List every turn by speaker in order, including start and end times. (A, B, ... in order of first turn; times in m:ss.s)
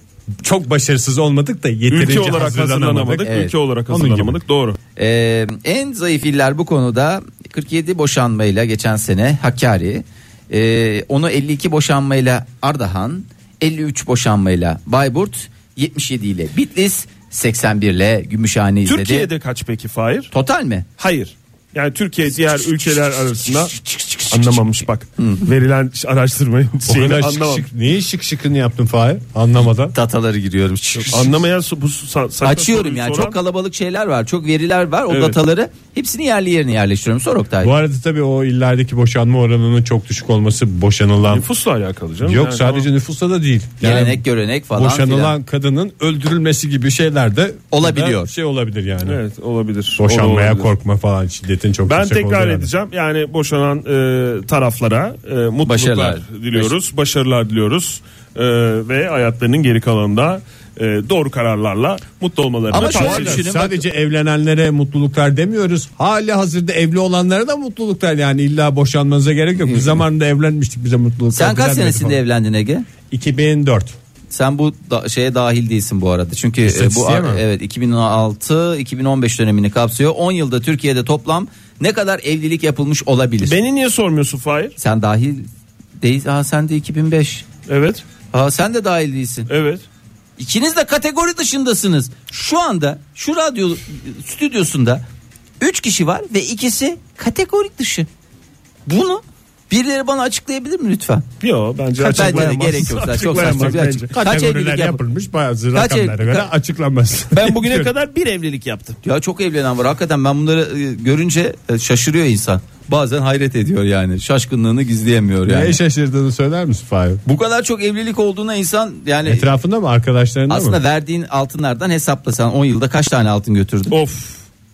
0:00.4-0:03.3 A
0:01.9-0:04.8 B
0:03.2-0:03.5 C
0:03.9-0:04.4 A
0:05.0-0:19.3 C
0:18.8-0:20.3 B
0:20.3-0:20.8 C
0:21.0-0:23.8 B
0:23.4-0:25.4 C
0:24.3-0:27.6 B
0:26.8-0:29.9 A
0:29.9-0:31.4 C
0:31.1-0:33.4 B
0:32.4-0:37.7 C
0:35.1-0:35.4 B
0:37.6-0:41.5 A
0:41.3-0:42.9 B
0:42.2-0:44.2 A
0:43.8-0:45.3 C
0:44.7-0:49.2 A
0:47.7-0:48.3 C
0:49.0-0:50.7 B
0:50.0-0:52.7 A
0:51.8-1:03.4 B
0:55.6-0:56.7 C
1:02.7-1:12.2 A
1:02.7-1:03.8 C
1:11.3-1:12.9 C
1:13.1-1:13.9 A
1:14.3-1:23.5 C
1:16.6-1:17.4 A
1:23.4-1:24.7 B
1:24.8-1:25.5 C
1:26.0-1:27.5 C
1:27.7-1:28.0 B
1:28.3-1:29.5 C
1:29.5-1:29.8 B
1:30.4-1:35.0 C
1:35.6-1:38.1 C
1:38.8-1:41.2 C
1:41.4-1:44.1 B
1:42.0-1:42.7 A
1:42.1-1:45.0 C
1:43.4-1:47.9 A
1:45.7-1:46.5 C
1:47.3-1:49.0 B
1:48.9-1:55.8 C
1:55.4-1:57.2 A
1:57.2-1:59.4 C
1:59.2-2:00.8 A
2:00.5-2:03.9 C
2:03.9-2:04.4 B